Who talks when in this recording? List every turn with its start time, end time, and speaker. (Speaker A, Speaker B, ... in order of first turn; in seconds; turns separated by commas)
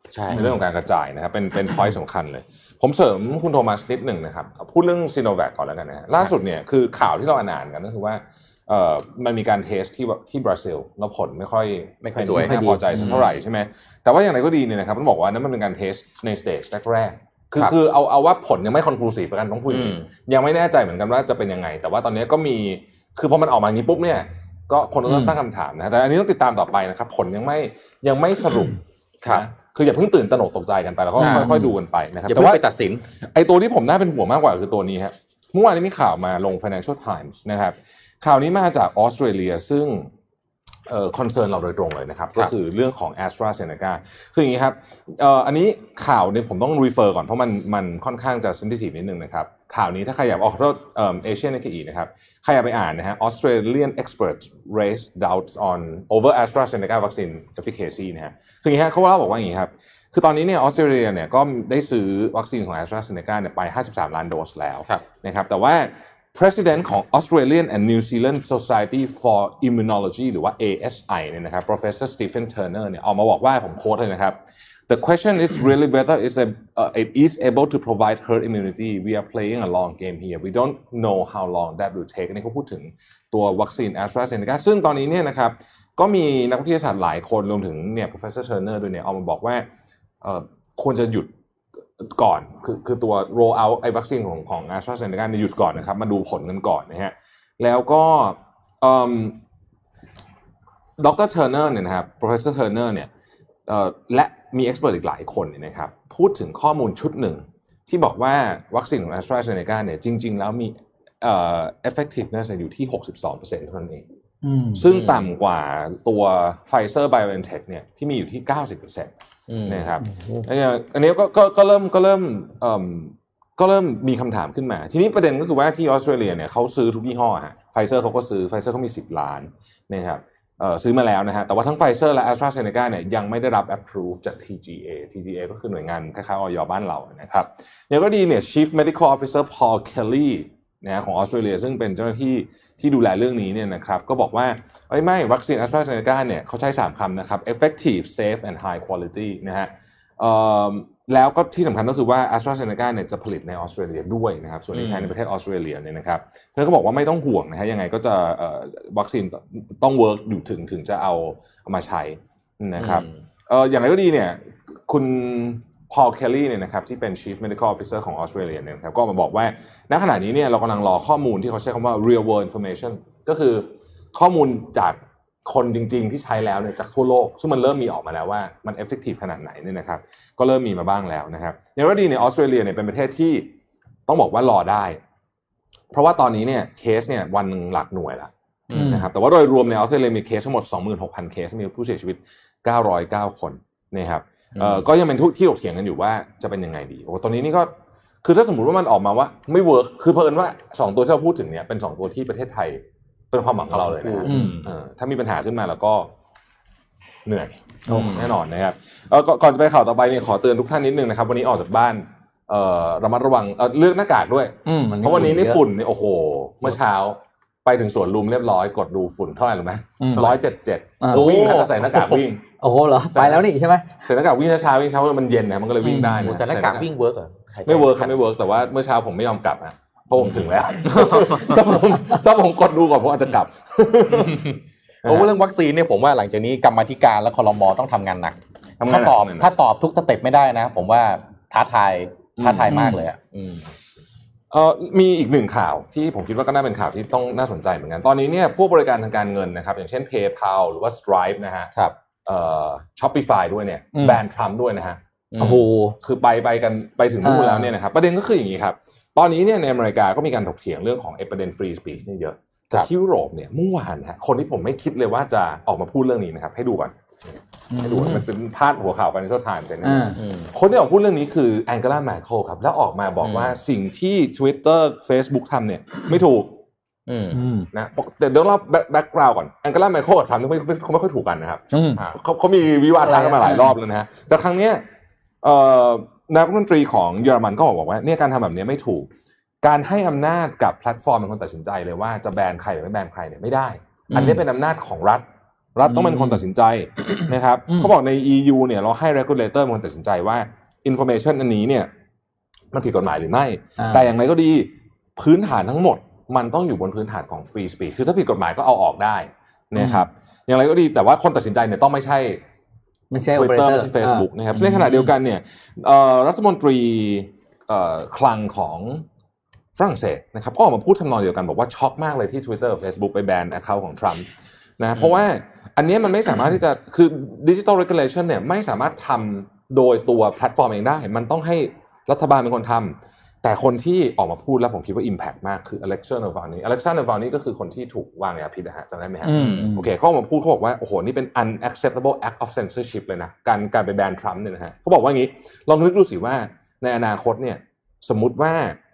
Speaker A: 0.1-0.6, Speaker B: 0.3-32.6, Speaker A: 12.0-13.3, Speaker C: 12.3-13.1, Speaker A: 19.7-20.1, Speaker A: 31.2-31.7, Speaker C: 31.2-31.6, Speaker A: 32.3-33.0, Speaker B: 33.3-40.1, Speaker B: 40.9-89.7, Speaker B: 90.2-91.3, Speaker B: 92.0-99.4, Speaker B: 101.0-103.1, Speaker B: 103.7-114.0, Speaker C: 114.4-114.8, Speaker B: 114.8-119.1, Speaker A: 114.9-115.2, Speaker A: 119.5-119.9, Speaker B: 119.7-183.5, Speaker C: 120.0-120.4, Speaker A: 154.7-155.1, Speaker A: 162.8-163.2, Speaker B: 184.1-185.0, Speaker B: 185.9-197.7, Speaker A: 188.7-189.0, Speaker C: 188.7-189.1, Speaker A: 194.5-194.8, Speaker B: 198.2-206.1, Speaker A: 203.7-204.7, Speaker C: 204.2-204.6, Speaker B: 207.2-222.4, Speaker C: 207.9-208.2, Speaker A: 207.9-208.3, Speaker C: 214.6-215.6, Speaker C: 220.0-220.3, Speaker C: 221.0-223.9, Speaker A: 221.1-221.7, Speaker B: 223.1-223.5, Speaker B: 224.0-226.9, Speaker C: 225.8-226.3, Speaker A: 226.1-228.2, Speaker B: 227.7-235.3, Speaker A: 230.2-230.5, Speaker C: 231.0-231.5, Speaker A: 234.1-243.7, Speaker B: 238.8-239.5, Speaker B: 242.4-242.9, Speaker C: 242.7-243.0, Speaker B: 244.5-251.7, Speaker B: 252.2-255.0, Speaker C: 253.9-254.2, Speaker A: 255.3-255.6, Speaker C: 255.4-255.9, Speaker B: 256.0-266.9, Speaker C: 257.2-257.7, Speaker C: 267.7-268.2, Speaker B: 267.8-276.6, Speaker C: 269.8-270.2, Speaker A: 270.1-270.5, Speaker A: 273.2-273.6, Speaker A: 277.1-277.4, Speaker C: 277.3-277.7, Speaker B: 277.7-284.8, Speaker C: 281.7-282.0, Speaker C: 283.0-283.8, Speaker B: 285.4-289.1, Speaker B: 289.6-301.9, Speaker A: 294.1-294.4, Speaker C: 294.1-294.4, Speaker C: 295.9-296.4, Speaker B: 302.7-312.4, Speaker C: 303.8-304.1, Speaker C: 309.8-310.1, Speaker C: 313.1-315.1, Speaker B: 313.3-319.0, Speaker B: 319.8-324.3, Speaker B: 324.8-348.8, Speaker A: 324.9-325.2, Speaker C: 339.2-339.9, Speaker A: 339.3-339.7